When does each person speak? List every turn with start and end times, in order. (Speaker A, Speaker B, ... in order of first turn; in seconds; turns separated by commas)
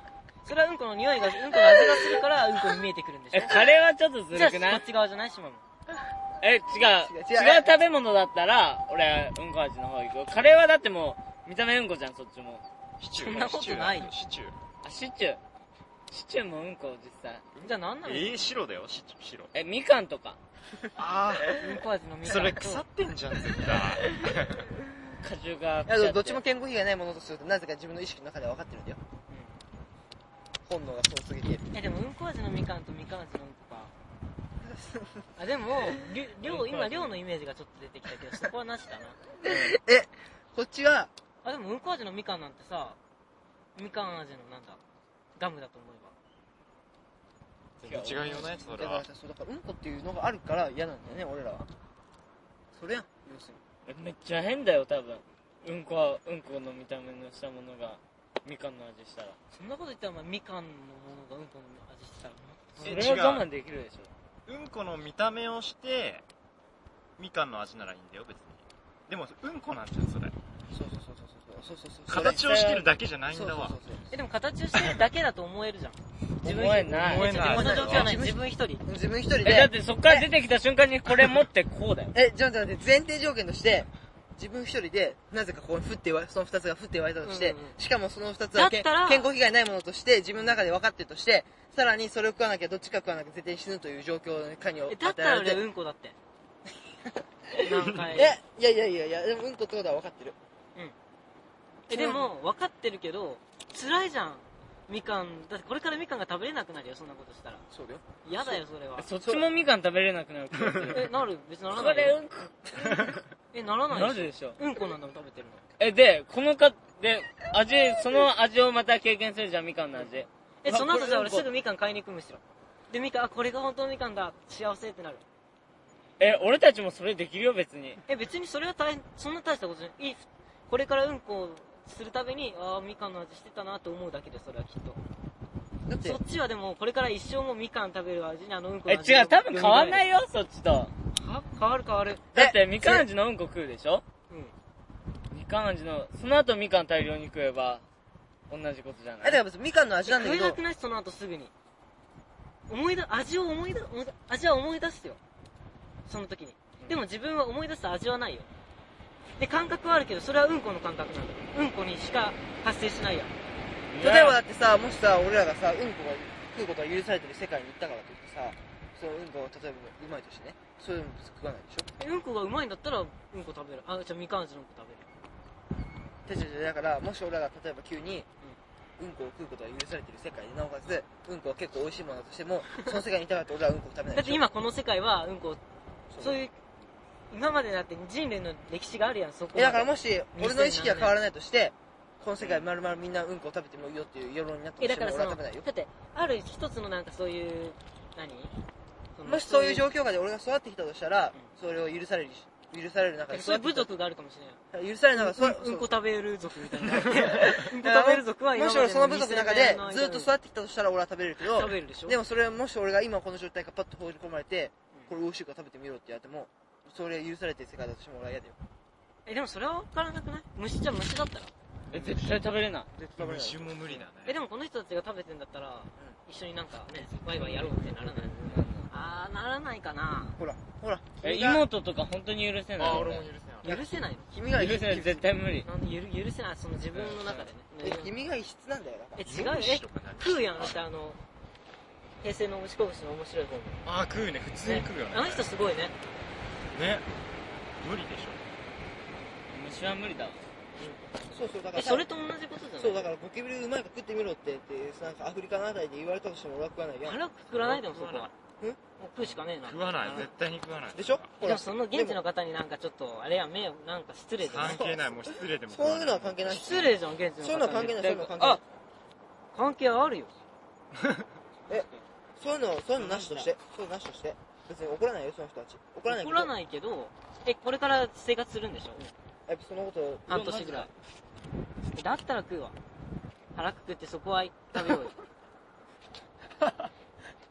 Speaker A: 0.5-3.5, Speaker B: 3.3-4.8, Speaker A: 4.3-5.6, Speaker B: 6.4-12.6, Speaker C: 6.8-7.8, Speaker D: 13.0-14.6, Speaker A: 13.2-14.1, Speaker B: 14.8-15.4, Speaker B: 16.1-17.4, Speaker D: 17.6-19.5, Speaker A: 17.6-18.5, Speaker B: 19.5-20.4, Speaker D: 21.0-24.7, Speaker A: 21.6-22.8, Speaker B: 25.2-26.4, Speaker C: 25.9-29.0, Speaker A: 29.3-29.6, Speaker C: 30.6-31.7, Speaker A: 31.7-33.9, Speaker C: 34.6-35.3, Speaker A: 35.4-39.2, Speaker B: 36.5-37.0, Speaker C: 39.4-41.1, Speaker A: 41.4-43.0, Speaker A: 43.8-44.8, Speaker A: 45.4-46.1, Speaker D: 47.8-49.0, Speaker B: 47.9-48.4, Speaker C: 48.2-51.7, Speaker C: 52.7-53.6, Speaker B: 53.9-59.4, Speaker A: 59.5-63.0, Speaker B: 62.8-64.1, Speaker D: 62.8-63.5, Speaker D: 64.5-66.2, Speaker D: 67.2-70.3, Speaker C: 70.7-72.4, Speaker D: 72.1-73.8, Speaker B: 72.1-72.9, Speaker C: 73.3-74.2, Speaker A: 74.1-78.8, Speaker C: 76.4-80.3, Speaker B: 76.4-77.4, Speaker D: 77.1-78.1, Speaker B: 79.4-82.1, Speaker C: 82.1-95.6, Speaker A: 87.2-87.7, Speaker A: 88.5-89.3, Speaker A: 94.9-96.2, Speaker A: 97.6-98.3, Speaker C: 98.0-100.4, Speaker C: 101.9-102.3, Speaker A: 101.9-107.6, Speaker C: 107.7-108.6, Speaker A: 108.2-109.1, Speaker B: 109.0-111.1, Speaker C: 109.2-109.5, Speaker A: 110.9-112.2, Speaker B: 111.7-113.2, Speaker A: 113.5-115.6, Speaker B: 113.9-114.6, Speaker B: 115.8-120.3, Speaker A: 120.6-125.2, Speaker C: 120.7-121.5, Speaker B: 126.2-128.0, Speaker A: 128.1-135.0, Speaker C: 135.9-136.2, Speaker A: 136.0-140.0, Speaker B: 138.9-140.9, Speaker A: 141.2-142.2, Speaker C: 142.3-143.1, Speaker B: 142.3-144.0, Speaker A: 144.3-144.5, Speaker B: 145.3-147.8, Speaker B: 148.5-149.4, Speaker C: 149.2-150.6, Speaker A: 150.1-151.5, Speaker A: 152.7-155.2, Speaker A: 156.1-158.5, Speaker A: 159.4-163.3, Speaker B: 163.9-164.4, Speaker C: 164.0-171.9, Speaker A: 172.0-175.1, Speaker C: 176.3-178.3, Speaker C: 179.0-184.4, Speaker A: 184.1-185.6, Speaker C: 186.1-186.4, Speaker A: 186.2-186.5, Speaker A: 187.3-191.2, Speaker C: 189.6-195.7, Speaker A: 194.8-198.5, Speaker A: 199.2-199.9, Speaker C: 199.2-203.9, Speaker A: 203.3-204.6, Speaker C: 204.7-206.0, Speaker A: 205.2-210.3, Speaker C: 206.8-218.6, Speaker A: 211.5-212.2, Speaker A: 219.3-221.5, Speaker B: 221.9-222.9, Speaker C: 221.9-222.2, Speaker C: 222.9-224.1, Speaker D: 223.2-224.4, Speaker A: 224.2-228.3, Speaker C: 227.4-228.7, Speaker B: 228.4-228.9, Speaker A: 228.9-230.4, Speaker C: 230.4-231.7, Speaker B: 231.2-233.1, Speaker D: 232.8-233.8, Speaker C: 232.8-235.3, Speaker A: 233.6-234.3, Speaker B: 234.6-235.7, Speaker A: 235.6-238.1, Speaker B: 236.9-237.5, Speaker C: 237.8-239.2, Speaker A: 239.2-241.2, Speaker D: 239.2-240.8, Speaker A: 242.2-243.8, Speaker D: 243.8-245.5, Speaker A: 244.6-245.9, Speaker D: 246.7-247.1, Speaker D: 247.8-248.4, Speaker B: 249.5-250.4, Speaker C: 251.3-252.1, Speaker A: 251.7-253.1, Speaker C: 252.8-258.8, Speaker A: 257.0-258.3, Speaker A: 259.0-260.3, Speaker D: 259.2-261.4, Speaker C: 260.9-262.2, Speaker A: 261.4-264.8, Speaker D: 264.4-266.4, Speaker C: 264.6-268.6, Speaker A: 266.5-268.6, Speaker B: 268.0-268.5, Speaker A: 269.5-270.3, Speaker B: 271.7-272.0, Speaker C: 271.7-276.5, Speaker B: 273.0-273.5, Speaker A: 276.1-279.1, Speaker C: 279.5-280.7, Speaker A: 280.3-280.9, Speaker B: 280.3-280.9, Speaker A: 281.9-282.8, Speaker A: 283.6-285.1, Speaker C: 284.7-285.1